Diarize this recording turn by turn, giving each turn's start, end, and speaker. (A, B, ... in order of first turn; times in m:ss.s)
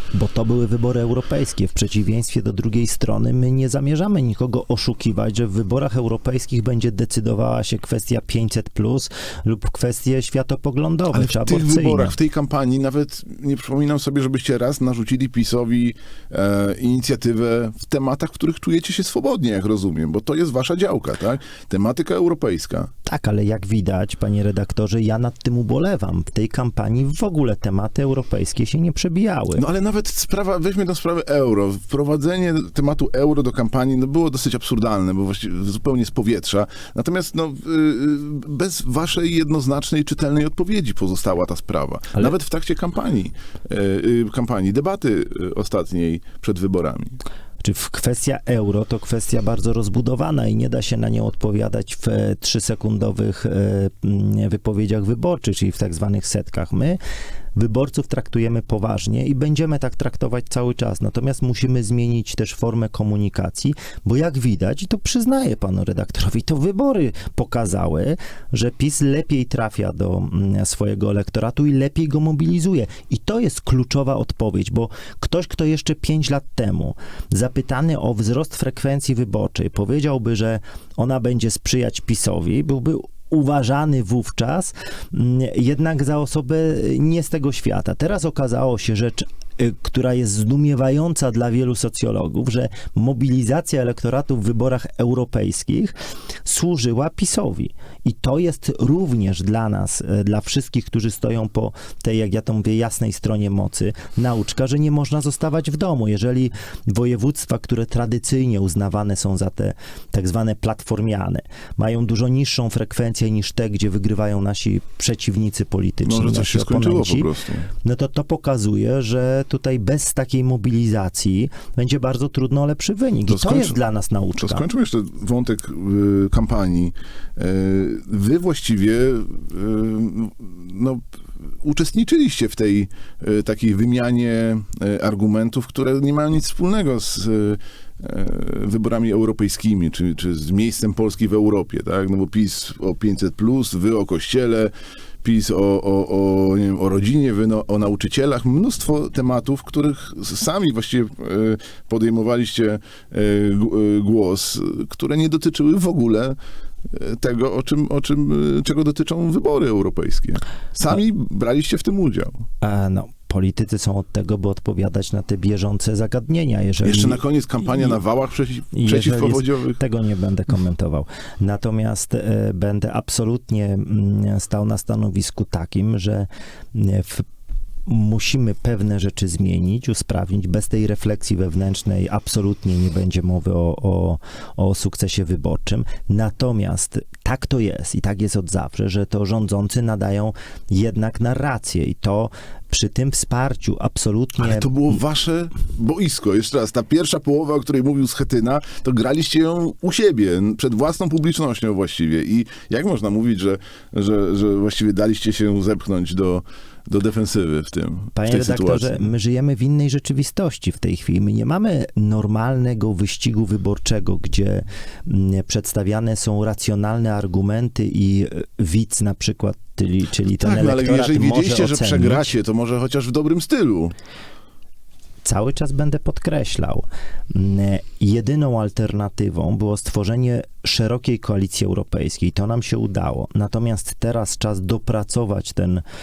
0:00.1-0:12.1 A
0:11.1-0:22.9 B
0:23.0-0:29.6 A
0:29.6-0:47.2 B
0:47.6-0:57.0 A
0:57.5-1:35.9 A
1:36.4-1:57.3 A
1:56.0-1:57.7 B
1:57.8-2:04.6 A
2:03.3-2:03.8 B
2:04.4-2:11.0 B
2:11.6-2:42.4 B
2:42.6-2:47.2 A
2:46.8-2:49.8 B
2:48.7-2:57.3 A
2:57.8-3:15.0 A
3:14.4-3:29.1 B
3:28.1-3:42.3 A
3:40.4-3:43.9 B
3:45.2-3:55.8 A